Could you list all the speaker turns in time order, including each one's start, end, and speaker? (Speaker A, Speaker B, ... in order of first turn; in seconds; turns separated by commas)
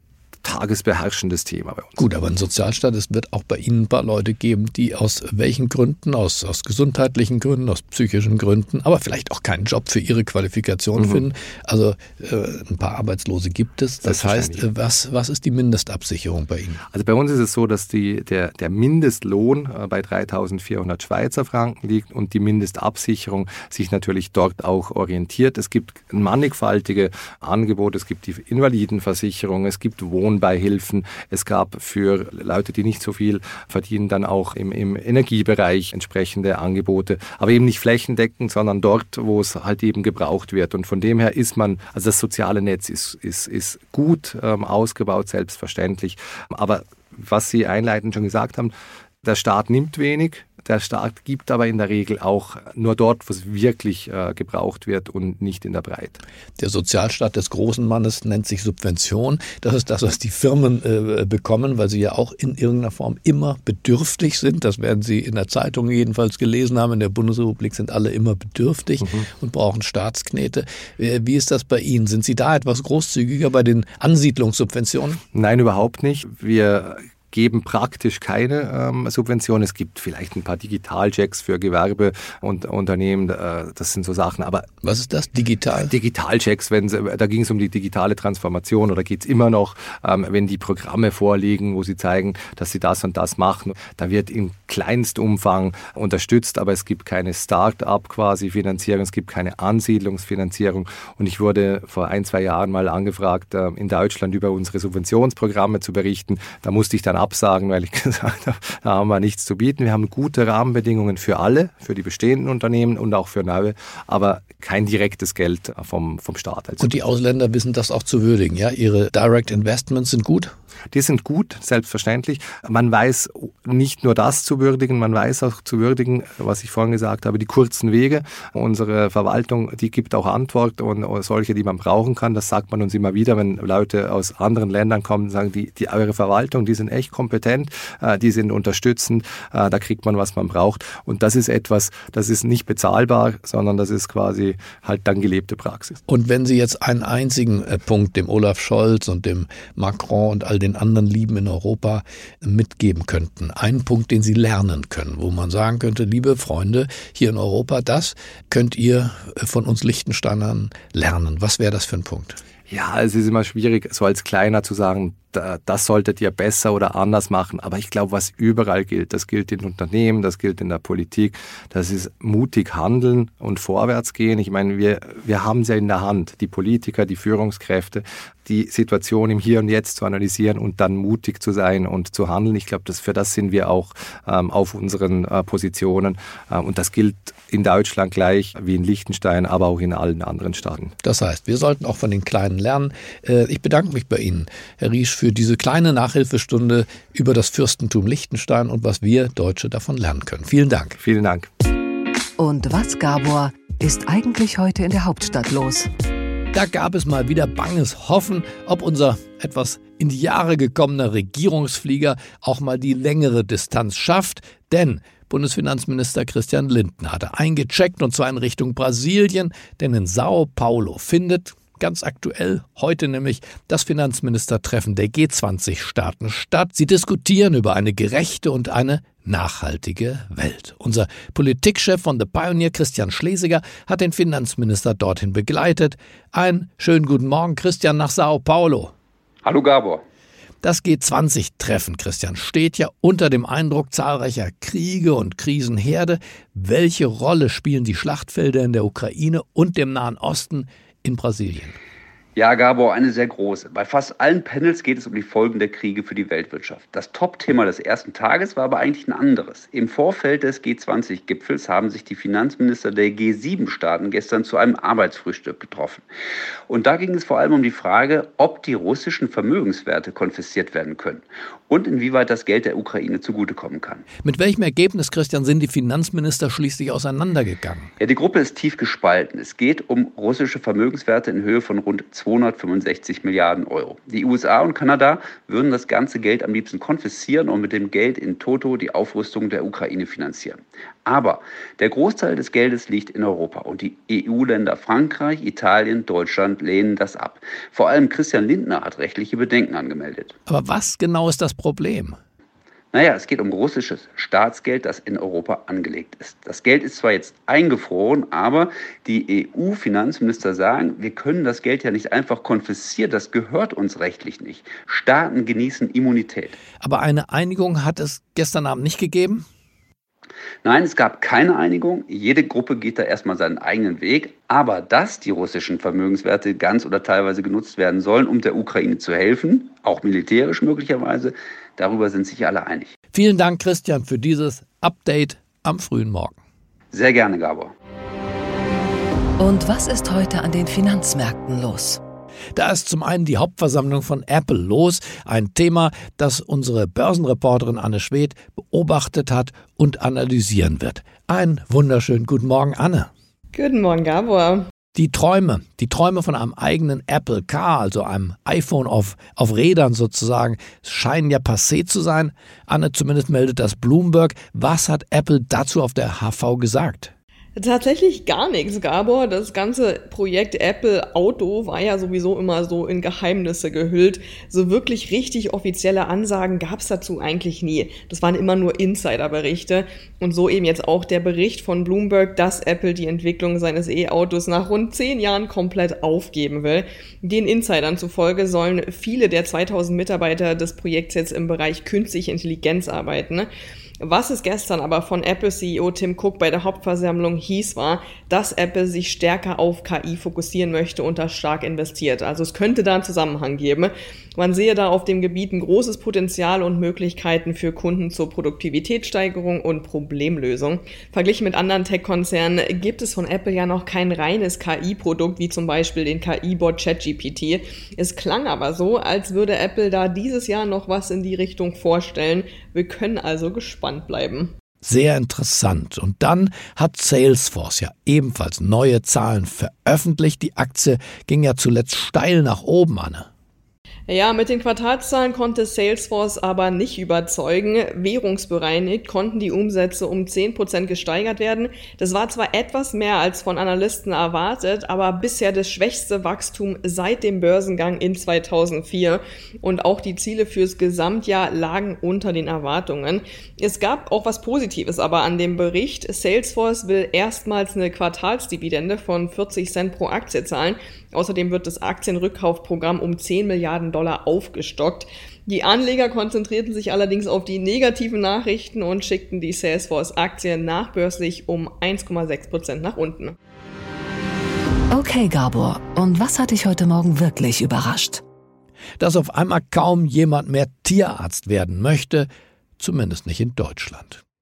Speaker A: 0.4-2.0, Speaker B: 2.0-16.8, Speaker A: 14.0-14.6, Speaker A: 16.9-56.2, Speaker B: 56.6-75.2, Speaker A: 75.3-84.7, Speaker B: 84.8-85.9, Speaker A: 85.8-117.0, Speaker B: 116.8-120.5, Speaker A: 120.9-146.0, Speaker B: 146.1-162.4, Speaker A: 162.7-190.9, Speaker B: 191.0-201.0, Speaker A: 201.0-201.5, Speaker C: 202.4-205.9, Speaker B: 206.5-238.9, Speaker D: 239.4-240.0, Speaker B: 240.6-251.8, Speaker D: 252.3-266.0, Speaker D: 266.7-274.1, Speaker B: 274.2-277.9, Speaker D: 278.0-300.3, Speaker B: 300.5-302.2, Speaker D: 302.9-316.6, Speaker B: 316.8-319.5, Speaker D: 320.6-332.9, Speaker B: 333.1-336.4, Speaker D: 336.9-337.7, Speaker C: 339.4-342.0, Speaker B: 342.5-353.1, Speaker E: 353.5-354.7, Speaker B: 354.9-367.1, Speaker E: 367.6-393.5, Speaker E: 394.0-424.5, Speaker B: 424.8-433.3, Speaker E: 434.1-473.4, Speaker C: 474.9-478.2, Speaker B: 479.0-484.2